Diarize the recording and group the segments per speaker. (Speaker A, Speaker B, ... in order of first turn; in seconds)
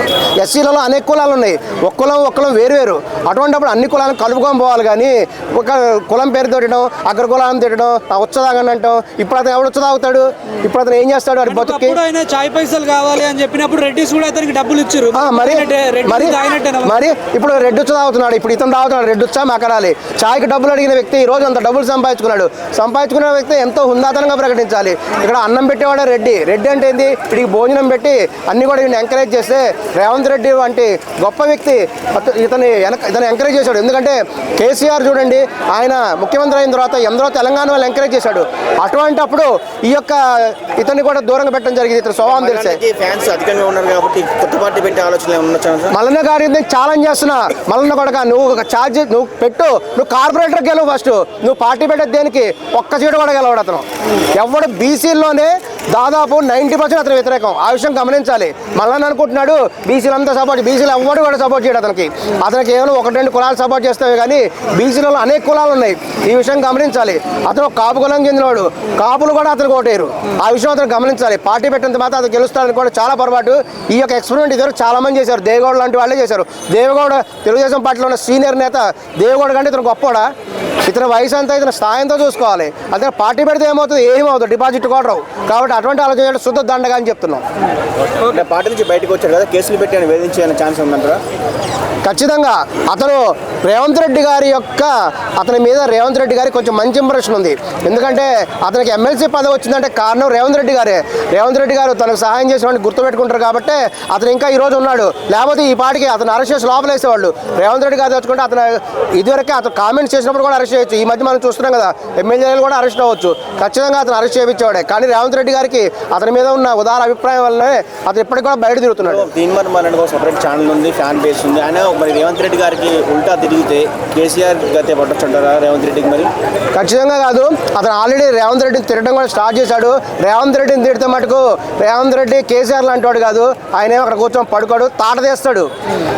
Speaker A: 0.4-12.0, 15.1-42.8, 45.9-80.3, 80.8-87.4, 92.0-119.3, 126.7-135.7
Speaker B: 11.5-17.0
Speaker C: 42.2-46.0, 88.2-91.2, 119.0-126.3